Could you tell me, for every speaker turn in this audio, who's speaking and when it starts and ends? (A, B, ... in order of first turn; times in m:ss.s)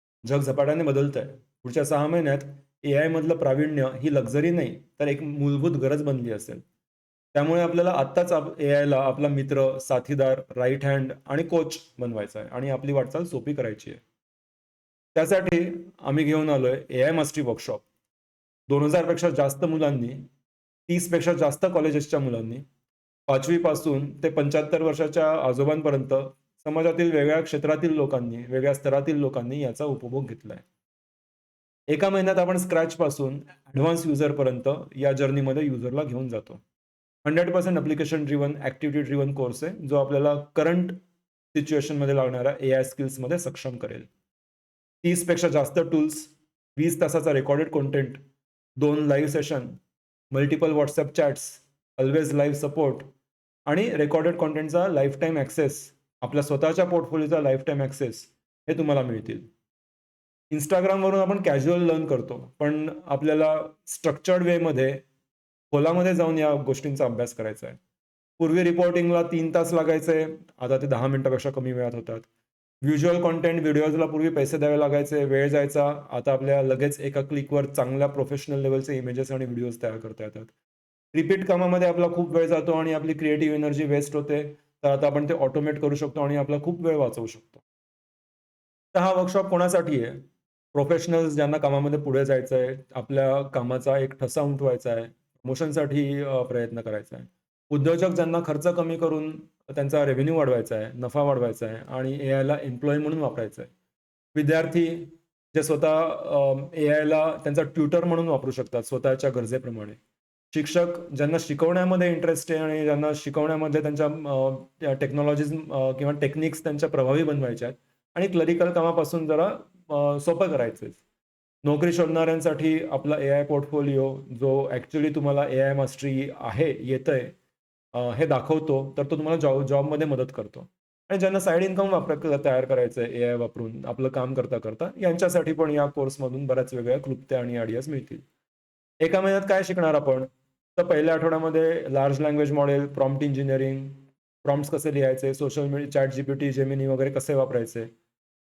0:00.2-0:06.6 A
0:07.3-0:14.0 A
0:15.1-0:17.8 A
0:18.7-0:20.2 A
0:20.9-0:22.6 A
0:23.3-0:30.6 A
0:31.9-0:36.6 A
0:37.2-0:41.0 A
0:41.5-0:44.1 A
0:45.0-0:48.2 A
0:48.8-0:49.8 A
0:50.3-0:53.1 A
0:53.6-0:59.5 A
1:00.5-1:05.0 A
1:05.7-1:07.8 A
1:08.4-1:12.3 A
1:12.8-1:20.5 A
1:21.1-1:27.6 A
1:28.9-1:43.7 A
1:44.3-1:50.0 A
1:50.5-2:01.0 A
2:01.6-2:07.4 A
2:07.9-2:18.2 A
2:19.0-2:27.9 A